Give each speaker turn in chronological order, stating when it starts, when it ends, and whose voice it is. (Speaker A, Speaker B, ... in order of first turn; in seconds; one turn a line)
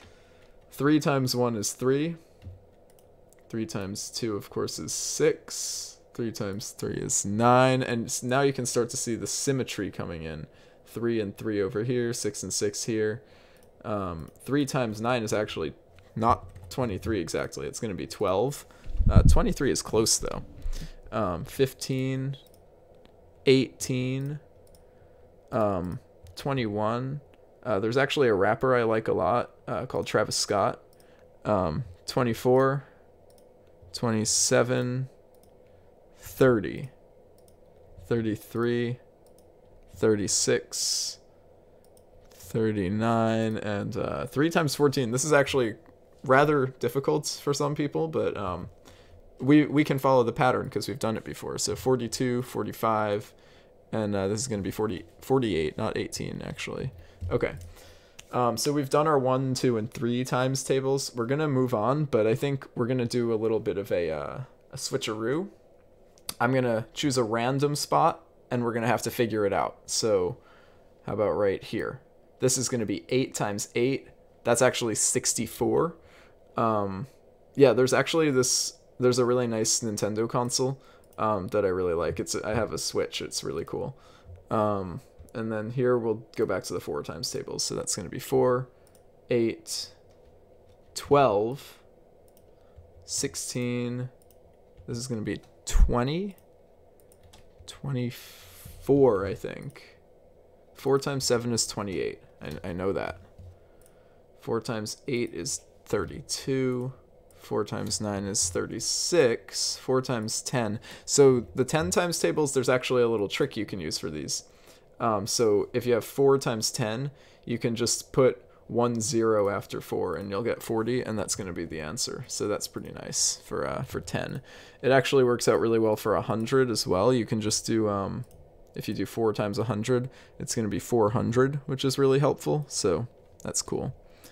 Speaker A: 0.7-2.2
Speaker A: 3.5-13.2
Speaker A: 13.8-20.4
Speaker A: 21.1-22.4
Speaker A: 23.4-24.4
Speaker A: 25.5-30.8
Speaker A: 31.4-32.9
Speaker A: 33.9-35.1
Speaker A: 36.2-36.9
Speaker A: 38.0-39.0
Speaker A: 39.9-41.2
Speaker A: 42.3-48.7
Speaker A: 49.4-53.3
Speaker A: 53.9-57.6
Speaker A: 58.3-65.5
Speaker A: 66.4-70.4
Speaker A: 71.0-76.0
Speaker A: 76.5-84.0
Speaker A: 84.5-88.7
Speaker A: 89.3-90.0
Speaker A: 90.9-91.8
Speaker A: 93.0-94.1
Speaker A: 94.9-96.4
Speaker A: 97.7-100.0
Speaker A: 100.7-103.2
Speaker A: 104.4-114.5
Speaker A: 115.0-134.0